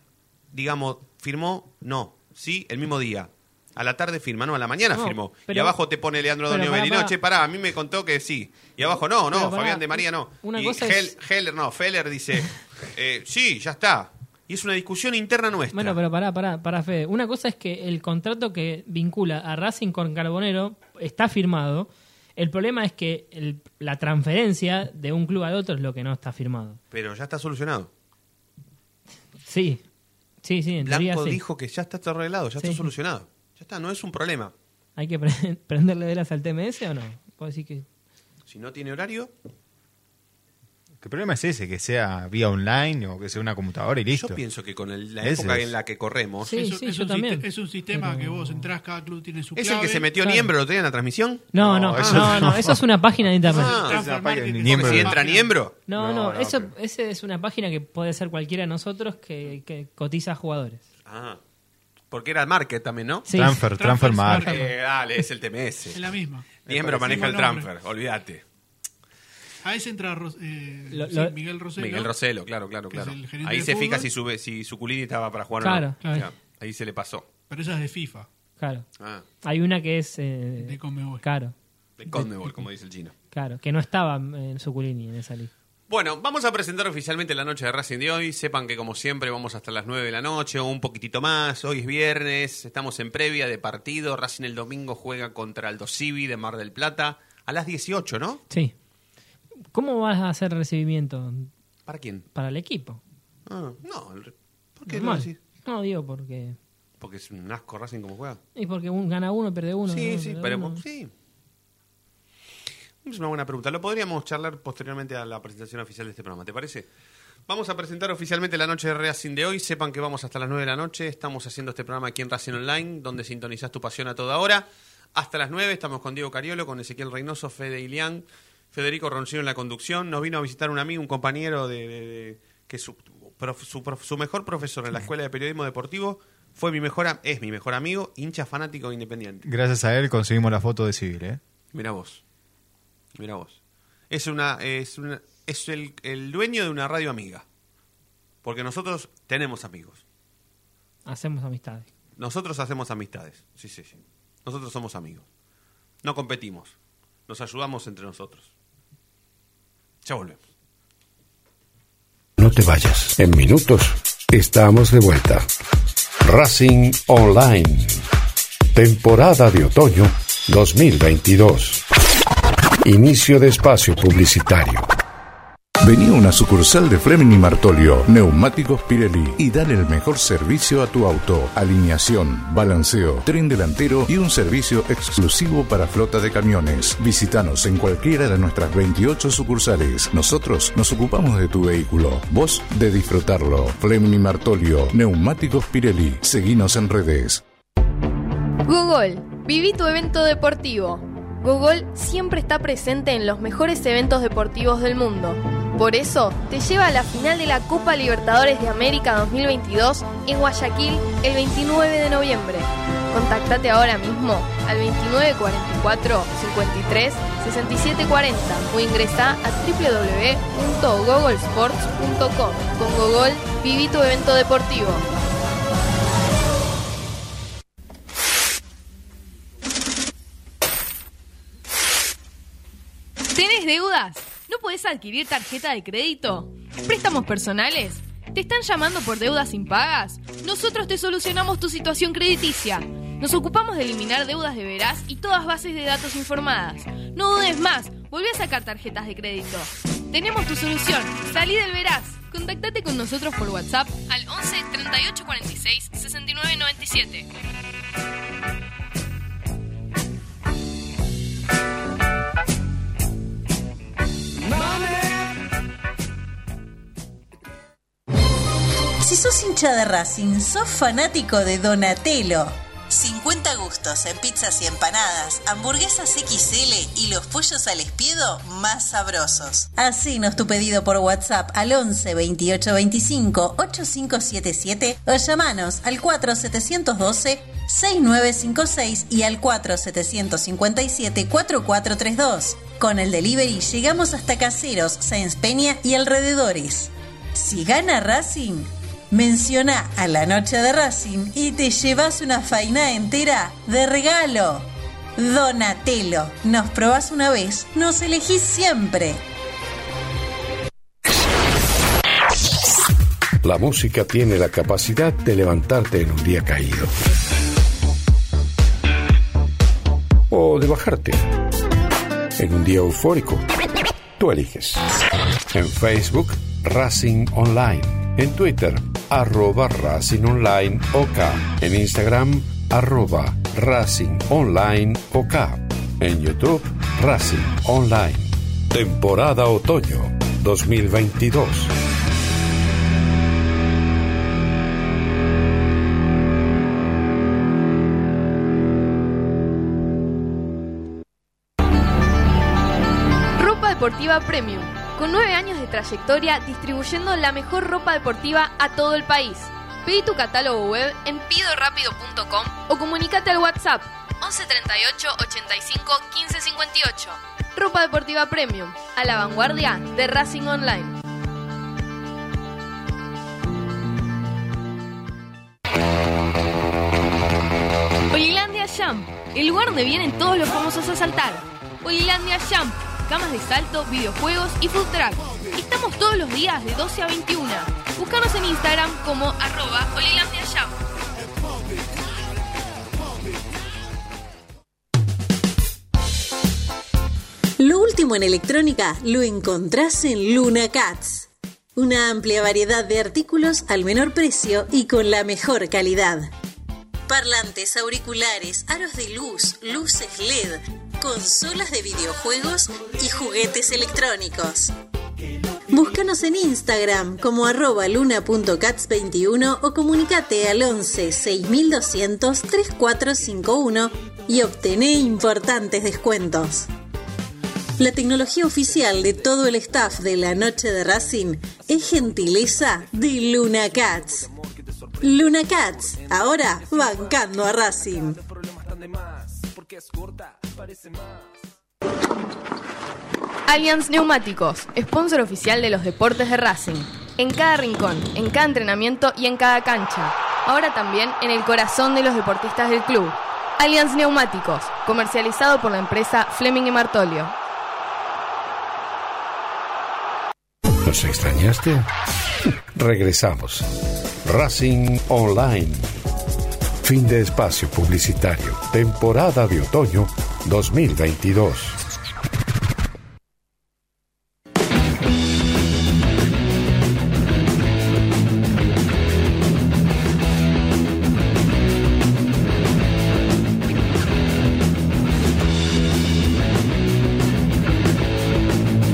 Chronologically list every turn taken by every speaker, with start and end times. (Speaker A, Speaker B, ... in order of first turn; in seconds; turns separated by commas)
Speaker A: 0.5-16.0, Speaker B: 4.9-5.8, Speaker B: 6.5-7.2, Speaker B: 9.3-11.1, Speaker B: 15.7-26.8, Speaker A: 26.9-27.9, Speaker B: 29.4-29.8, Speaker B: 30.4-31.4, Speaker A: 30.8-34.5, Speaker B: 32.6-32.9, Speaker B: 35.0-37.9, Speaker A: 38.5-39.3, Speaker C: 41.0-44.4, Speaker A: 44.1-46.5, Speaker C: 45.2-45.7, Speaker B: 46.5-48.7, Speaker D: 46.5-50.1, Speaker A: 49.5-52.5, Speaker B: 50.2-50.5, Speaker B: 51.5-53.8, Speaker C: 51.6-52.8, Speaker A: 53.5-54.0, Speaker D: 53.5-55.5, Speaker C: 53.5-55.2, Speaker A: 54.6-55.8, Speaker B: 55.9-60.8, Speaker C: 55.9-56.7, Speaker A: 61.1-61.4, Speaker A: 62.1-63.3, Speaker B: 63.3-64.5, Speaker C: 63.3-64.7, Speaker D: 63.7-64.7, Speaker A: 64.5-66.1, Speaker D: 65.9-67.7, Speaker A: 66.7-68.4, Speaker C: 66.7-67.2, Speaker D: 69.6-72.1, Speaker B: 70.9-71.3, Speaker A: 71.8-77.3, Speaker D: 72.9-74.1, Speaker B: 75.6-76.0, Speaker D: 76.0-76.3, Speaker D: 77.5-78.3, Speaker B: 78.6-78.9, Speaker A: 79.0-79.2, Speaker B: 79.4-81.5, Speaker D: 80.6-81.2, Speaker A: 82.0-83.1, Speaker B: 83.3-85.5, Speaker A: 85.9-98.4, Speaker B: 99.7-101.5, Speaker A: 101.9-102.3, Speaker B: 102.3-103.0, Speaker A: 103.5-105.4, Speaker B: 104.9-106.6, Speaker A: 107.0-108.4, Speaker B: 108.6-110.8, Speaker A: 109.9-111.1, Speaker A: 113.0-116.9, Speaker A: 117.5-139.5, Speaker C: 139.4-141.4, Speaker A: 141.7-142.2, Speaker A: 143.2-143.6, Speaker A: 144.1-147.4, Speaker A: 148.4-150.0, Speaker B: 151.1-151.9, Speaker A: 152.2-155.2, Speaker A: 156.0-156.8, Speaker A: 157.3-158.5, Speaker A: 160.1-160.4, Speaker E: 162.4-165.5, Speaker E: 166.2-168.1, Speaker E: 168.7-171.8, Speaker E: 172.8-174.9, Speaker F: 175.8-197.4, Speaker G: 198.7-225.1, Speaker G: 233.3-257.3, Speaker H: 269.0-309.2, Speaker E: 313.4-317.0, Speaker E: 320.3-321.3, Speaker E: 322.4-323.5, Speaker E: 324.2-324.9, Speaker E: 325.5-341.7, Speaker G: 353.4-371.0, Speaker G: 378.1-390.8, Speaker H: 397.6-406.3, Speaker H: 407.1-414.7, Speaker H: 415.7-426.7, Speaker H: 427.8-434.3, Speaker H: 435.0-438.2, Speaker G: 443.5-457.3, Speaker E: 460.8-461.9, Speaker E: 462.7-463.7, Speaker E: 464.2-465.9, Speaker E: 466.8-471.8